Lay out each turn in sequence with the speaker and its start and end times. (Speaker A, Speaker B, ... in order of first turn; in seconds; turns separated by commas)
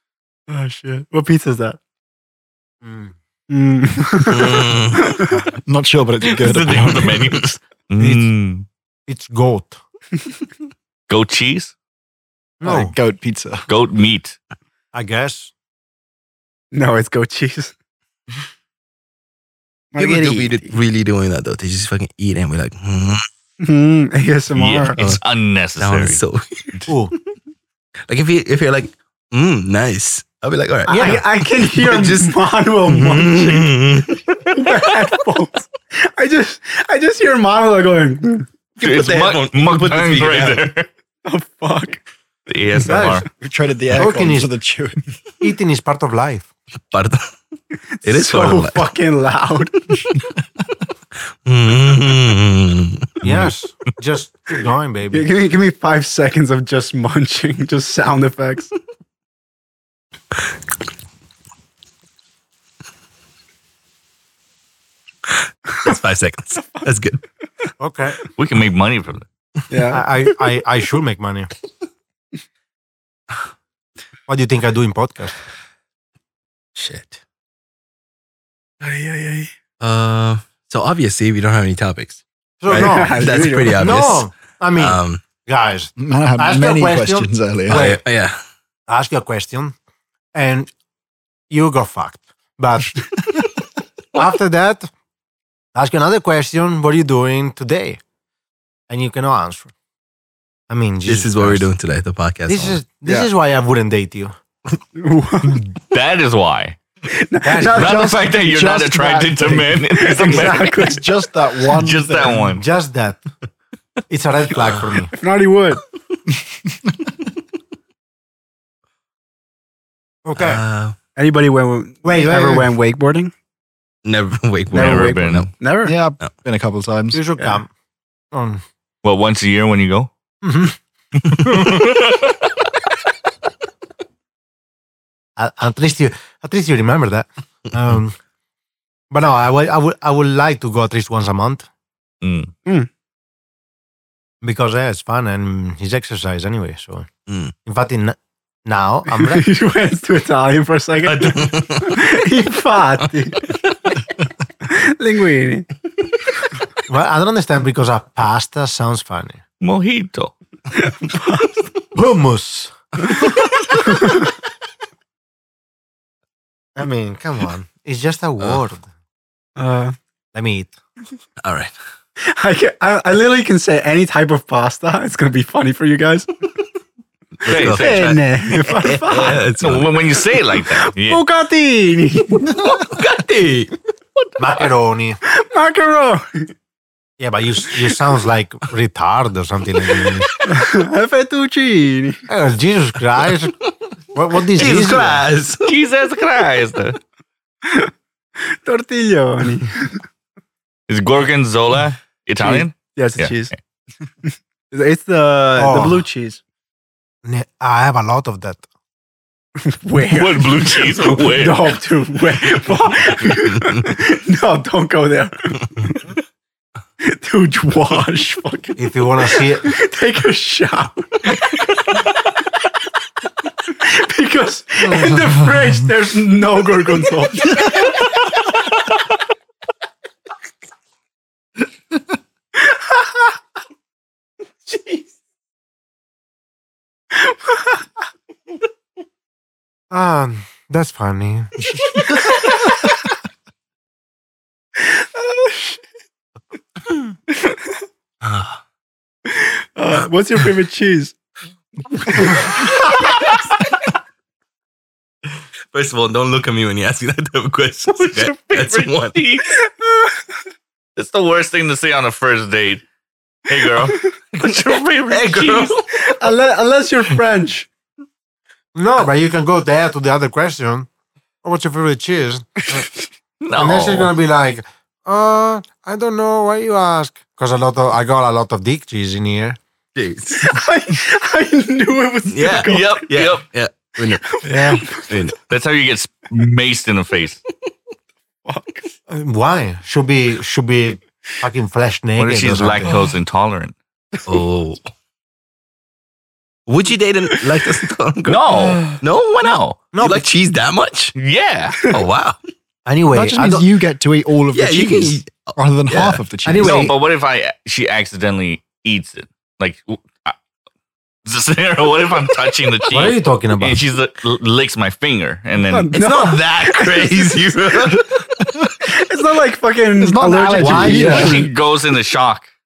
Speaker A: 0.5-1.8, Speaker B: 2.8-3.1, Speaker A: 3.5-5.4, Speaker C: 4.2-5.1, Speaker D: 5.6-7.3, Speaker C: 6.2-7.4, Speaker E: 6.4-8.7, Speaker B: 9.1-9.8, Speaker E: 11.1-11.7, Speaker B: 12.6-12.9, Speaker D: 12.6-13.7, Speaker E: 13.7-14.4, Speaker B: 14.9-15.5, Speaker A: 16.7-17.7, Speaker A: 19.9-20.7, Speaker C: 20.0-23.2, Speaker A: 23.6-25.0, Speaker E: 24.6-26.2, Speaker C: 24.9-25.2, Speaker C: 25.8-26.9, Speaker B: 26.9-27.1, Speaker C: 28.1-32.3, Speaker B: 30.9-31.2, Speaker A: 30.9-38.5, Speaker C: 32.9-34.3, Speaker C: 38.8-40.7, Speaker E: 38.8-40.9, Speaker A: 41.2-42.0, Speaker E: 42.5-43.3, Speaker B: 42.8-43.2, Speaker D: 43.4-45.0, Speaker B: 43.9-44.5, Speaker B: 45.4-46.5, Speaker C: 46.9-47.2, Speaker A: 48.0-49.9, Speaker C: 48.0-48.9, Speaker C: 51.4-53.5, Speaker B: 53.2-55.3, Speaker A: 55.1-58.7, Speaker C: 65.8-67.2, Speaker B: 67.8-68.2, Speaker E: 68.3-69.2, Speaker A: 69.7-70.1, Speaker B: 69.9-71.5, Speaker B: 74.3-75.3, Speaker C: 76.7-77.2, Speaker A: 78.8-79.5, Speaker C: 79.8-85.2, Speaker B: 82.6-88.0, Speaker A: 82.7-84.0, Speaker D: 86.0-88.0, Speaker C: 87.7-88.4, Speaker B: 88.9-89.7, Speaker B: 90.3-90.7, Speaker B: 91.5-93.0, Speaker B: 94.1-94.9, Speaker B: 95.7-98.0, Speaker B: 98.9-99.7, Speaker B: 100.7-101.7, Speaker C: 101.0-102.8, Speaker B: 102.5-104.3, Speaker A: 103.0-103.3, Speaker A: 104.9-105.7, Speaker E: 105.7-106.8, Speaker A: 107.0-108.1, Speaker B: 107.4-108.2, Speaker E: 107.6-110.8, Speaker D: 108.3-112.6, Speaker A: 109.9-111.2, Speaker E: 111.7-112.6, Speaker B: 112.5-113.2, Speaker B: 114.1-115.1, Speaker A: 115.1-115.8, Speaker B: 120.2-120.6, Speaker C: 120.3-121.0, Speaker A: 121.2-123.3, Speaker B: 122.0-122.7, Speaker C: 124.0-125.5, Speaker E: 124.7-125.5, Speaker A: 124.7-126.0, Speaker D: 125.8-127.2, Speaker B: 127.1-127.7, Speaker B: 128.3-128.6, Speaker E: 129.0-130.1, Speaker B: 130.4-130.8, Speaker E: 131.4-132.0, Speaker B: 135.4-138.2, Speaker B: 139.1-141.7, Speaker E: 142.2-142.5, Speaker B: 144.4-147.1, Speaker C: 147.3-147.5, Speaker B: 147.6-149.5, Speaker A: 149.1-153.5, Speaker C: 151.1-152.0, Speaker A: 154.6-155.7, Speaker B: 156.9-159.4, Speaker E: 159.6-160.3, Speaker A: 160.7-161.6, Speaker B: 161.9-162.7, Speaker A: 163.2-164.2, Speaker B: 166.8-168.9, Speaker A: 169.6-169.9, Speaker B: 170.3-170.7, Speaker C: 171.4-171.7, Speaker A: 172.2-176.3, Speaker C: 177.4-179.9, Speaker E: 177.5-178.0, Speaker A: 177.6-179.5, Speaker E: 179.6-181.2, Speaker A: 180.8-182.5, Speaker C: 182.5-183.8, Speaker B: 184.4-185.2, Speaker A: 185.2-186.5, Speaker B: 187.2-190.3, Speaker A: 190.4-192.2, Speaker B: 192.3-193.6, Speaker B: 194.1-195.2, Speaker C: 194.5-195.7, Speaker E: 195.7-197.0, Speaker A: 197.6-200.0, Speaker E: 200.9-203.4, Speaker A: 202.4-203.5, Speaker A: 204.2-206.4, Speaker B: 205.6-206.0, Speaker B: 207.2-208.7, Speaker A: 209.6-216.1, Speaker E: 210.1-211.8, Speaker A: 217.0-218.8, Speaker B: 218.8-219.7, Speaker A: 219.6-222.0, Speaker A: 223.6-228.3, Speaker A: 232.5-233.3, Speaker A: 234.6-235.1, Speaker A: 237.1-237.8, Speaker B: 239.9-241.8, Speaker A: 241.9-242.8, Speaker A: 244.8-245.8, Speaker A: 247.3-247.8, Speaker C: 248.2-248.6, Speaker A: 249.2-251.1, Speaker A: 252.1-253.2, Speaker C: 255.7-259.2, Speaker E: 257.9-259.6, Speaker A: 259.5-260.1, Speaker E: 260.9-262.8, Speaker E: 263.5-265.7, Speaker C: 265.1-265.9, Speaker A: 265.9-267.7, Speaker B: 268.7-270.9, Speaker B: 271.4-272.9, Speaker E: 273.4-274.1, Speaker B: 273.5-279.6, Speaker C: 279.9-280.6, Speaker A: 280.3-283.0, Speaker C: 282.3-284.2, Speaker E: 282.6-283.4, Speaker A: 284.1-285.2, Speaker B: 284.5-284.8, Speaker C: 285.1-285.4, Speaker E: 285.5-287.4, Speaker A: 288.4-288.9, Speaker B: 289.1-292.9, Speaker E: 292.2-293.7, Speaker C: 294.3-294.8, Speaker C: 296.6-301.1, Speaker E: 298.3-299.7, Speaker A: 298.7-299.0, Speaker B: 299.9-300.2, Speaker E: 301.1-301.8, Speaker C: 301.9-302.4, Speaker B: 302.9-303.7, Speaker D: 303.1-306.9, Speaker C: 304.5-306.2, Speaker B: 306.4-306.9, Speaker E: 306.6-310.4, Speaker E: 311.2-315.9, Speaker B: 312.9-313.8, Speaker A: 315.6-317.2, Speaker C: 315.9-318.1, Speaker D: 318.4-318.7, Speaker A: 318.8-321.5, Speaker D: 320.0-321.4, Speaker B: 320.6-321.3, Speaker E: 320.9-322.5